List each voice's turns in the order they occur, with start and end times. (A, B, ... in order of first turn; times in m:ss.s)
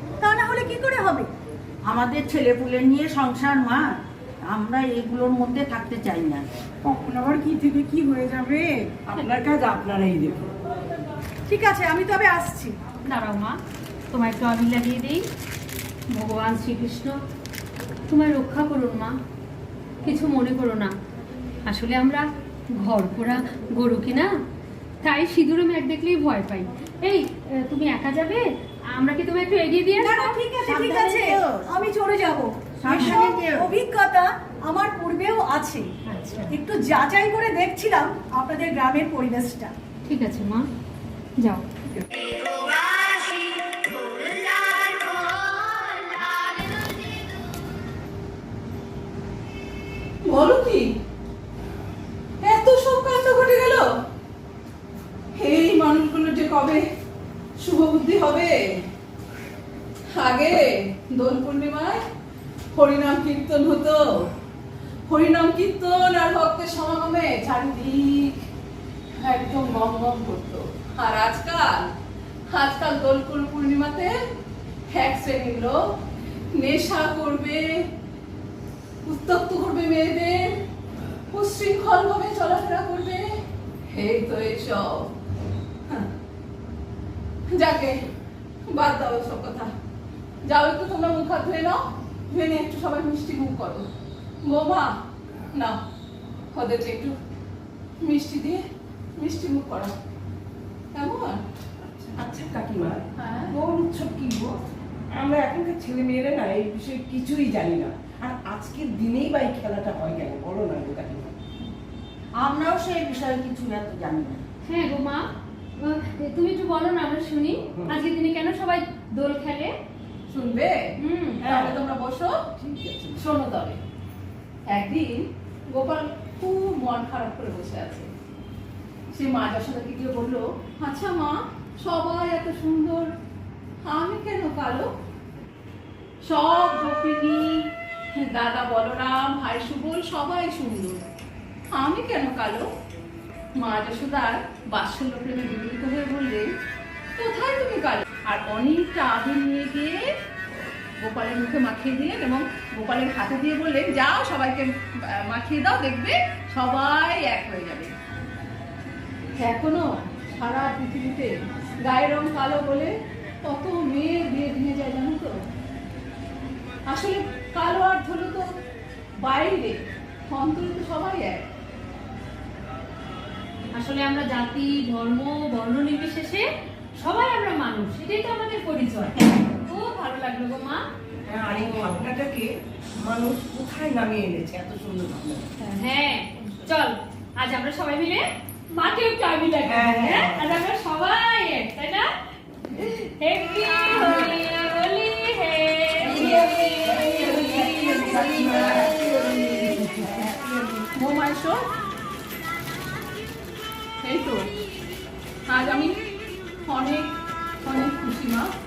0:00.2-0:01.3 A
0:01.8-0:06.4 B
0:06.8-0:08.7 A
0:09.1-0:10.4 C
0:11.5-0:12.8 A
0:13.0-0:13.5 D
0:14.1-0:15.2 D
0:16.1-0:17.1 D
0:18.1-0:19.1 D
0:20.0-0:20.9 D
0:21.7-0:24.3 D
0:25.0-0:28.4 D
0:28.9-0:30.4 D
0:30.0-0:35.8 A
0:30.6-0:31.7 B
0:32.8-0:33.7 B
0:36.1-0:36.5 D
0:36.5-0:39.7 A
0:40.1-0:40.7 D
0:50.2-0:50.9 E
0:52.4-0:53.9 E
0:55.3-0:56.8 E
0:57.6-0:58.6 E
1:00.1-1:02.0 E
1:02.7-1:04.3 E
1:05.1-1:08.4 E
1:09.1-1:11.9 E
1:12.5-1:14.1 E
1:14.9-1:15.8 E
1:16.6-1:17.9 E
1:19.0-1:20.6 E
1:21.3-1:23.3 E
1:23.9-1:25.1 E
1:27.5-1:28.0 E
1:28.7-1:29.7 E
1:30.4-1:33.9 E
1:34.4-1:35.0 E
1:35.5-1:35.8 E
1:36.5-1:37.2 E
1:38.0-1:38.6 E
1:39.2-1:39.9 E
1:40.9-1:41.4 E
1:41.8-1:44.6 C
1:43.2-1:43.5 E
1:45.1-1:51.4 C
1:52.4-1:54.4 B
1:54.6-1:55.2 D
1:55.8-1:59.7 D
2:00.3-2:00.8 E
2:01.0-2:01.4 D
2:01.4-2:02.5 E
2:01.4-2:01.7 C
2:02.7-2:03.1 C
2:03.1-2:03.8 E
2:04.7-2:08.1 E
2:09.1-2:13.1 E
2:13.8-2:14.9 E
2:16.2-2:21.0 E
2:21.7-2:22.7 E
2:23.6-2:26.5 E
2:27.2-2:30.0 E
2:31.0-2:37.9 E
2:39.4-2:41.3 E
2:41.8-2:42.9 E
2:43.4-2:45.4 E
2:46.9-2:48.5 E
2:49.2-2:51.4 E
2:53.7-2:56.4 D
2:57.0-3:00.8 D
3:01.3-3:02.4 C
3:03.0-3:05.5 C
3:05.6-3:12.1 D
3:06.4-3:06.6 E
3:09.6-3:10.4 C
3:12.7-3:18.3 D
3:16.0-3:20.3 C
3:17.3-3:18.9 E
3:20.3-3:21.6 E
3:24.0-3:24.5 E
3:25.5-3:26.0 E
3:26.6-3:28.5 E